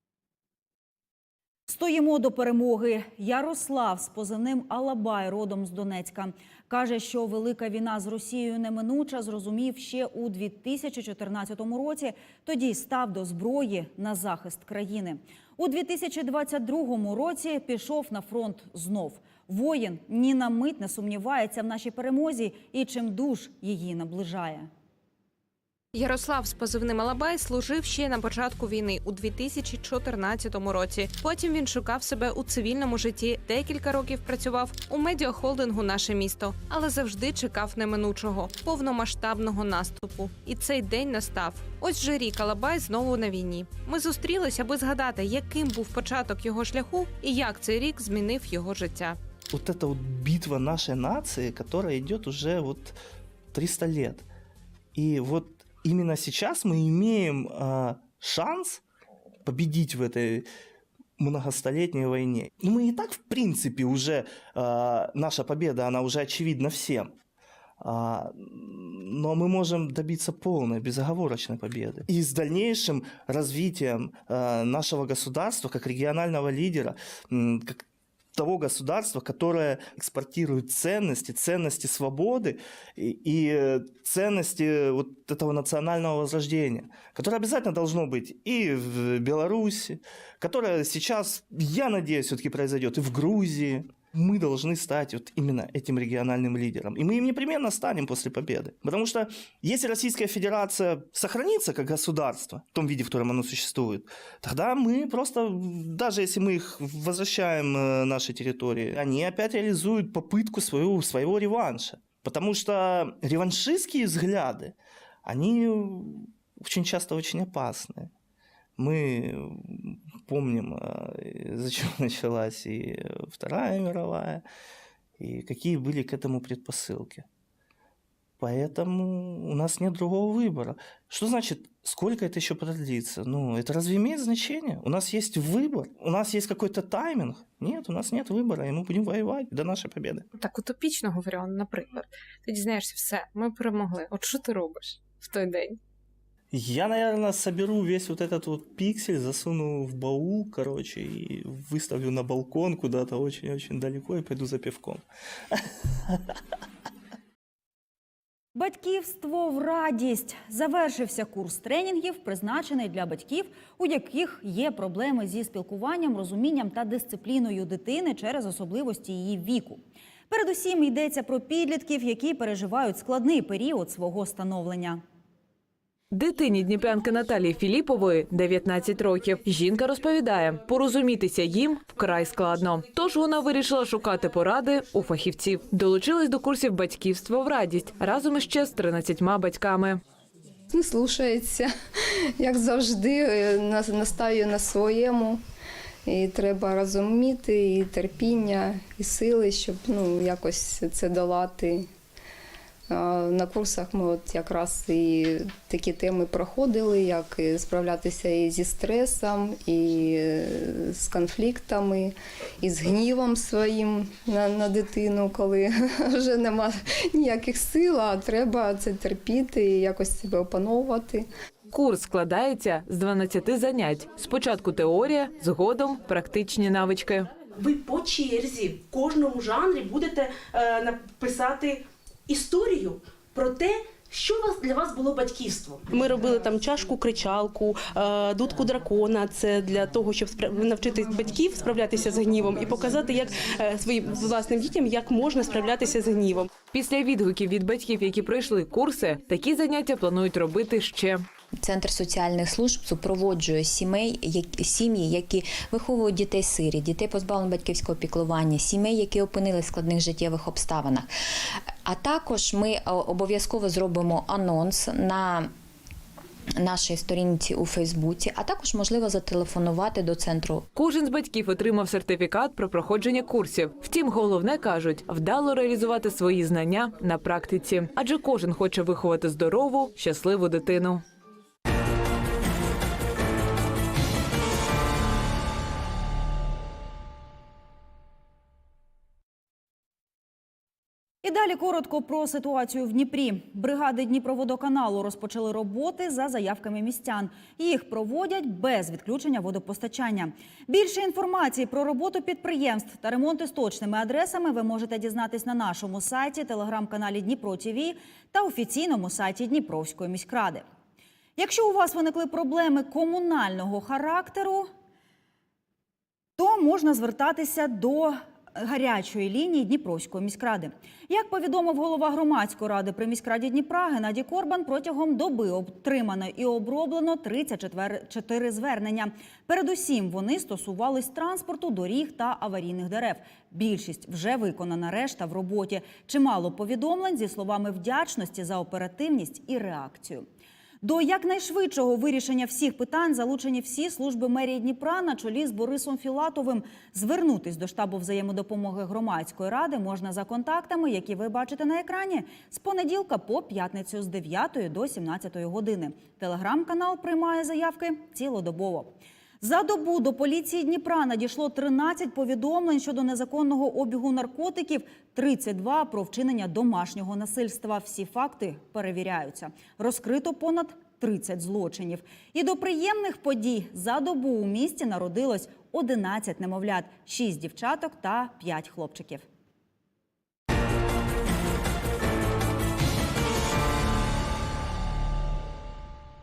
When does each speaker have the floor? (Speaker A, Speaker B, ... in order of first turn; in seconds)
Speaker A: 1.7-24.7, 158.5-175.0, 291.2-310.6, 311.4-314.7, 316.4-340.2, 340.8-379.2
Speaker B: 25.9-49.2, 140.3-145.8
Speaker C: 49.5-53.0, 53.5-54.3, 54.9-58.8, 59.5-60.5, 61.2-67.1, 67.8-118.1, 118.8-124.4, 125.2-127.2, 128.4-140.2, 146.5-155.6
Speaker D: 176.1-190.0, 221.7-227.3, 246.7-251.2, 270.7-281.0
Speaker E: 190.7-191.7, 192.4-195.4, 196.1-201.8, 202.9-221.2
Speaker F: 227.6-246.5
Speaker G: 251.6-261.1, 261.8-265.5, 266.6-270.6